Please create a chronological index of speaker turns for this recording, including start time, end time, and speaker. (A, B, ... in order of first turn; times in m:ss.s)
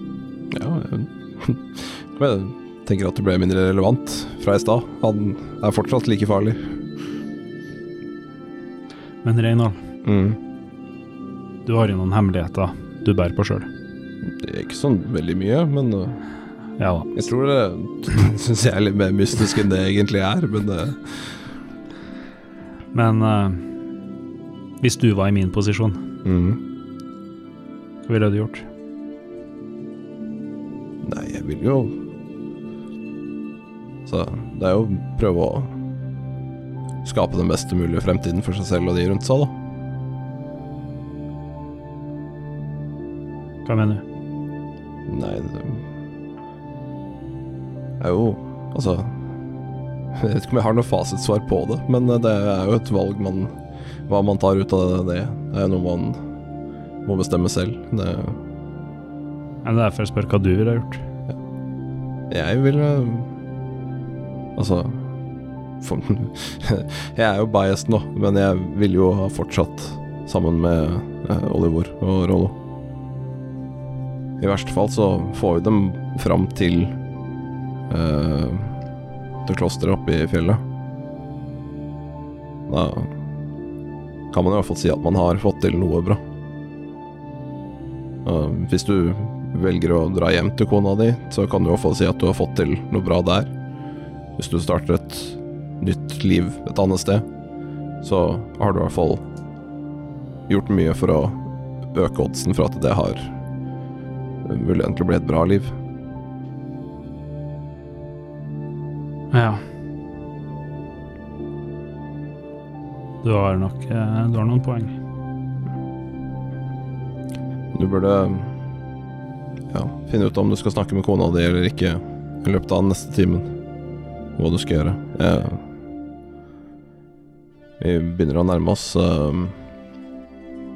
0:00.5-0:06.8 A
0:09.2-0:09.8 B
0:10.0-0:10.4 A
0:11.6-0:13.7 B
0:14.2-0:16.2 A
0:16.8-0:17.1 B
0:17.1-0:21.4 A
0:22.9-0:23.7 B
0:24.8-0:26.0 B
0:26.2-0:26.6 A
0:28.0-0:28.6 B
0:31.0-0:32.0 A
0:34.0-0:35.8 A
0:37.0-0:39.5 A
0:43.6-0:44.0 B
0:45.1-0:45.8 A
0:48.0-0:49.2 A
0:50.1-0:53.6 A
0:54.1-0:56.2 A
0:57.0-0:58.4 A
0:59.6-1:01.0 B
1:02.3-1:03.3 A
1:04.6-1:05.0 A
1:05.8-1:12.6 A
1:14.4-1:17.0 A
1:17.9-1:18.8 A
1:19.4-1:20.6 A
1:22.7-1:23.1 A
1:24.3-1:26.2 A
1:28.2-1:33.5 A
1:34.4-1:37.2 A
1:38.0-1:39.2 A
1:40.5-1:43.3 A
1:44.4-1:45.8 A
1:49.3-1:49.6 B
1:53.2-1:55.0 B
1:57.7-1:58.6 A
1:59.7-2:03.5 A
2:04.4-2:05.6 A
2:07.8-2:09.6 A